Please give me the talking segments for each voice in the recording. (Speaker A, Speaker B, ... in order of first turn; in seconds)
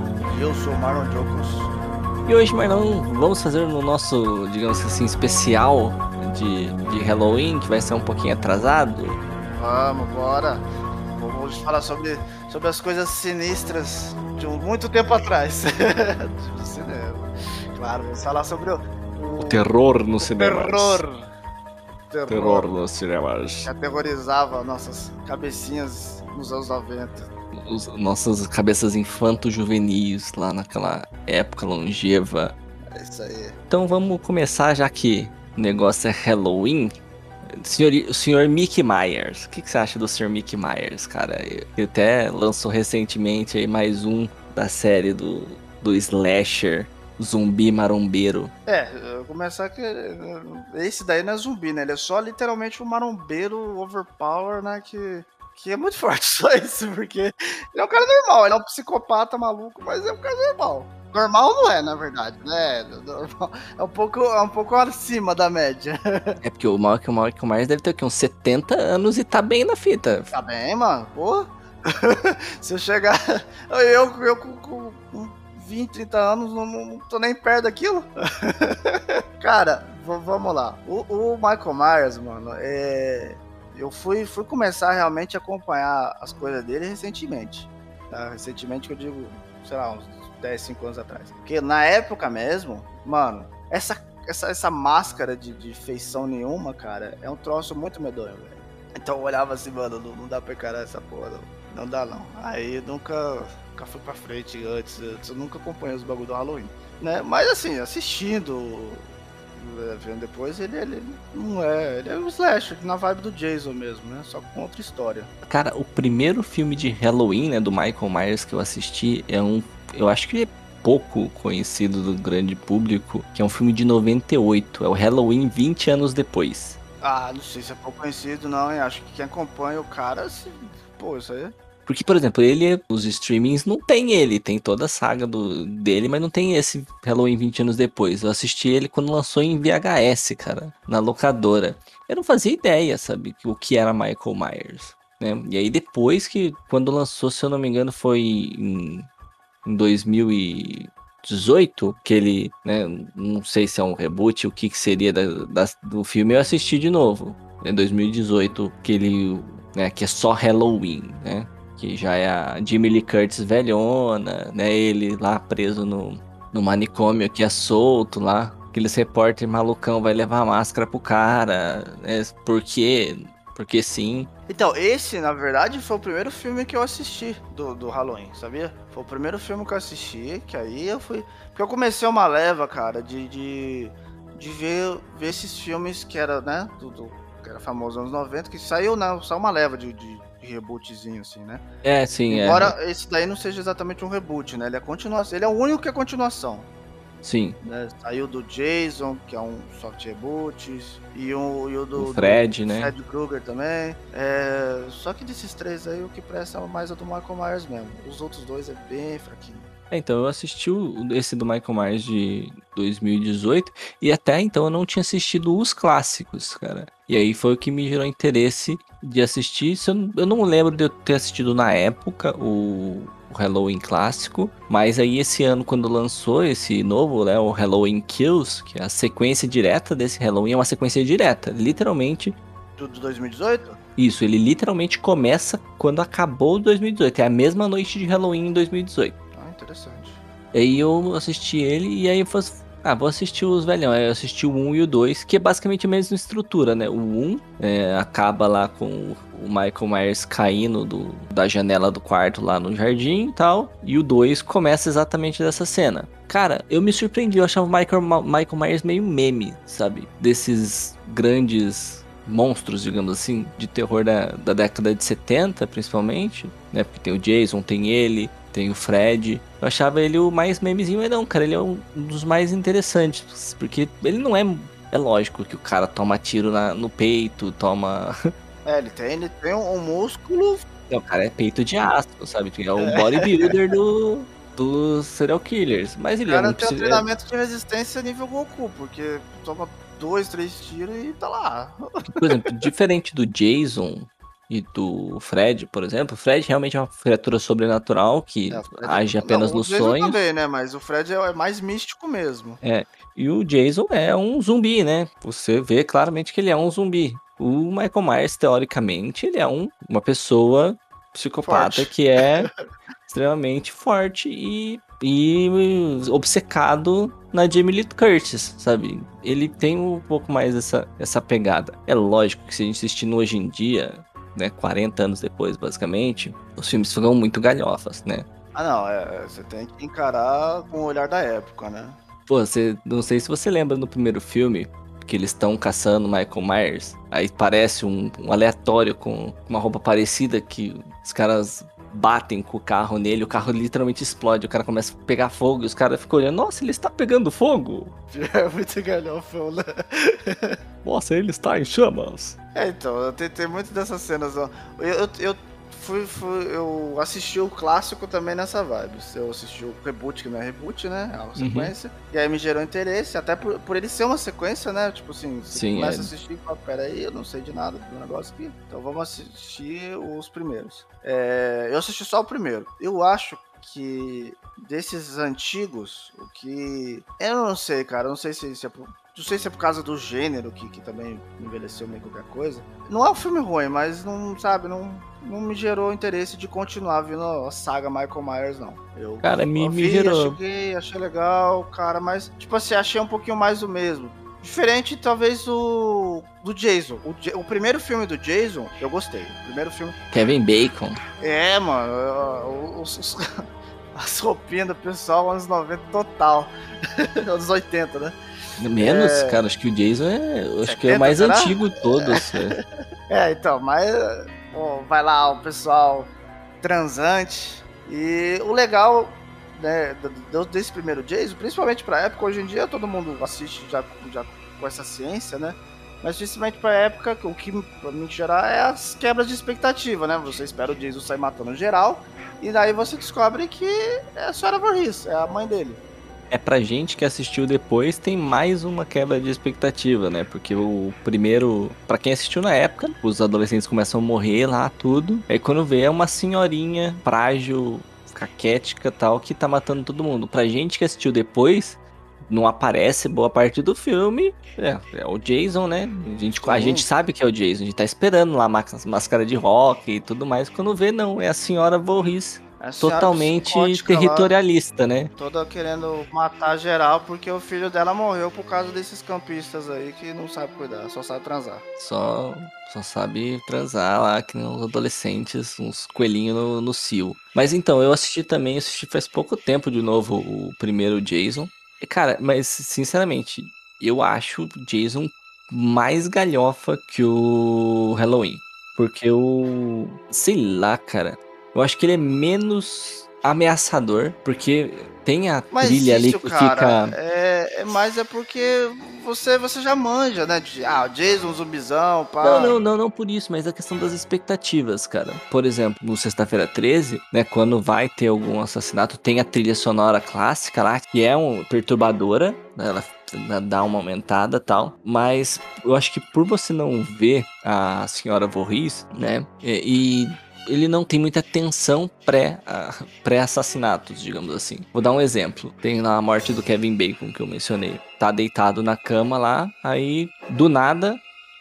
Speaker A: 0.2-1.7, 9.5-19.7, 20.2-21.3, 22.1-22.7, 23.6-27.3, 32.9-33.6, 48.7-66.4, 70.3-115.3, 127.0-131.5, 174.5-191.6, 192.3-196.7, 197.6-209.7, 232.8-233.8, 239.3-240.2, 278.6-280.6, 282.8-283.5, 286.3-291.8, 298.5-302.6, 311.4-312.6, 328.5-332.0, 348.1-350.6, 352.6-400.0, 401.2-408.2, 408.8-409.4, 410.6-412.5, 413.1-416.1, 416.6-435.8, 456.4-456.9, 462.6-464.3, 465.2-471.6, 495.5-502.6
Speaker B: 2.3-9.2, 19.4-21.0, 22.3-23.7, 27.5-32.5, 33.7-36.9, 37.5-48.5, 66.4-70.3, 115.5-126.8, 131.9-149.1, 149.7-174.3, 191.8-192.8, 197.2-197.6, 202.0-202.9, 209.9-232.3, 234.0-239.2, 240.5-278.1, 280.9-287.1, 292.1-300.2, 302.6-312.5, 313.1-328.3, 332.3-347.9, 350.8-352.4, 361.4-361.8, 365.5-366.1, 389.2-390.4, 400.1-401.0, 408.6-412.6, 436.3-465.1, 471.8-497.0, 502.2-531.0